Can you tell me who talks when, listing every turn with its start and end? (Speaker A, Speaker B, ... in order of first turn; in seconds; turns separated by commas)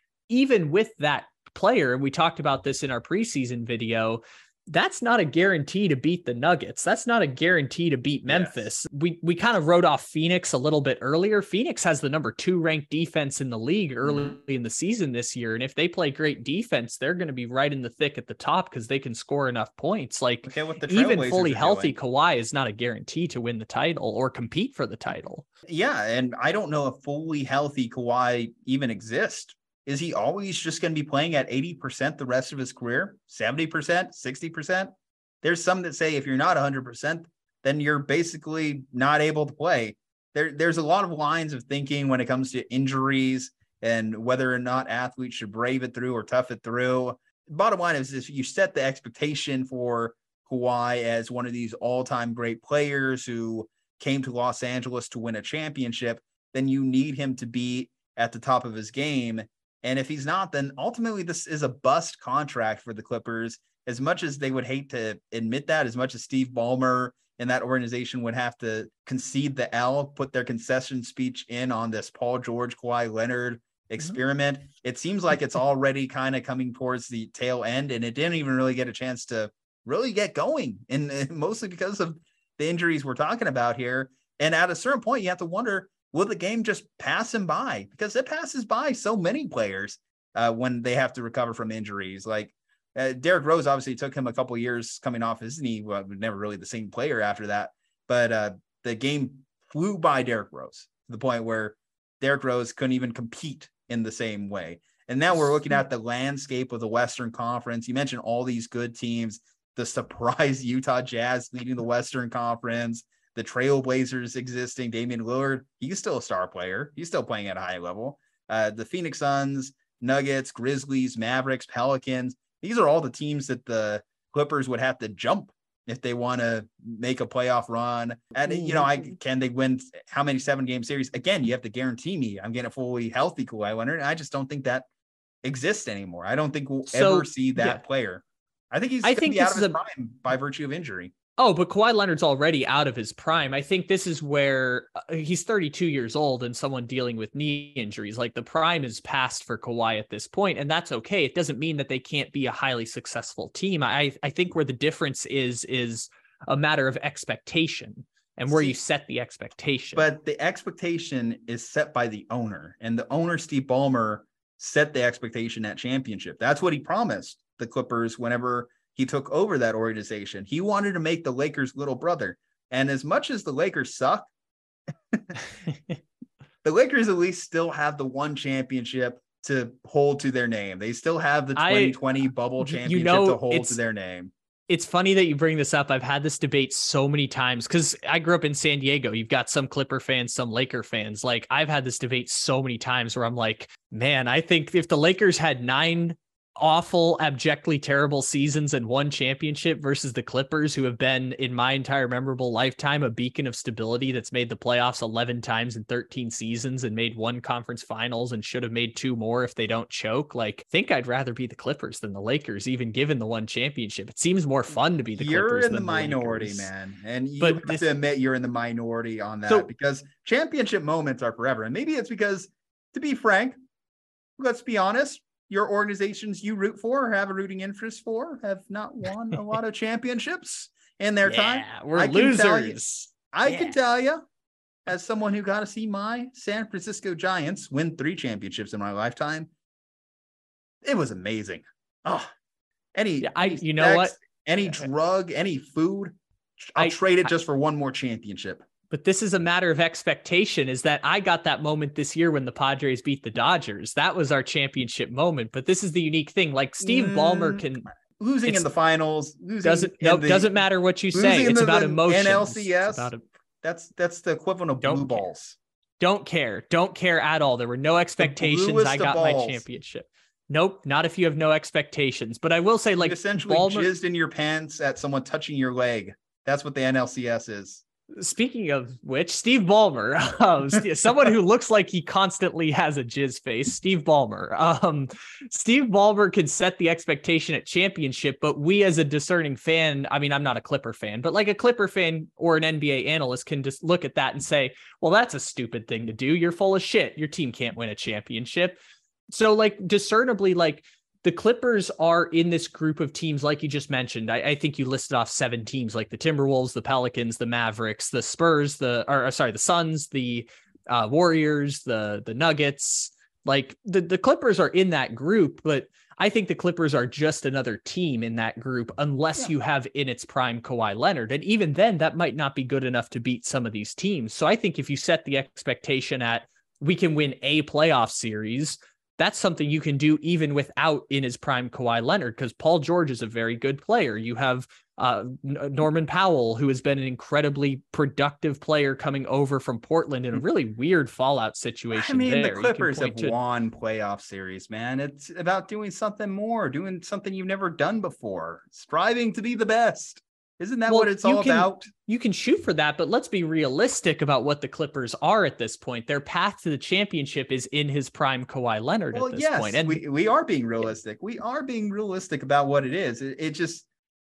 Speaker A: 0.3-25.4, Speaker B: 8.3-8.6, Speaker B: 14.0-14.4, Speaker B: 20.4-21.9, Speaker B: 25.7-34.9, Speaker B: 35.4-134.9, Speaker A: 128.5-129.1, Speaker B: 135.4-141.1, Speaker A: 136.9-137.8, Speaker A: 139.0-139.8, Speaker A: 141.4-160.1, Speaker B: 158.5-158.8, Speaker B: 160.0-174.3, Speaker B: 175.1-175.4, Speaker A: 175.7-176.0, Speaker B: 176.6-184.3, Speaker A: 181.6-182.0, Speaker A: 182.6-183.8, Speaker A: 184.7-216.7, Speaker B: 215.2-223.6, Speaker A: 217.4-217.9, Speaker B: 224.4-234.2, Speaker A: 231.2-233.7, Speaker B: 234.8-239.5, Speaker B: 240.8-242.3, Speaker B: 242.9-248.6, Speaker A: 243.2-244.2, Speaker A: 246.8-247.3, Speaker A: 248.9-257.9, Speaker B: 256.8-260.5, Speaker A: 259.6-263.2, Speaker B: 261.1-263.1, Speaker B: 263.6-265.6, Speaker A: 264.8-265.3, Speaker A: 266.0-273.9, Speaker B: 268.2-269.6, Speaker B: 273.0-277.8, Speaker A: 278.1-298.8, Speaker A: 299.3-343.4, Speaker B: 341.9-351.9, Speaker A: 350.9-360.0, Speaker B: 359.1-363.9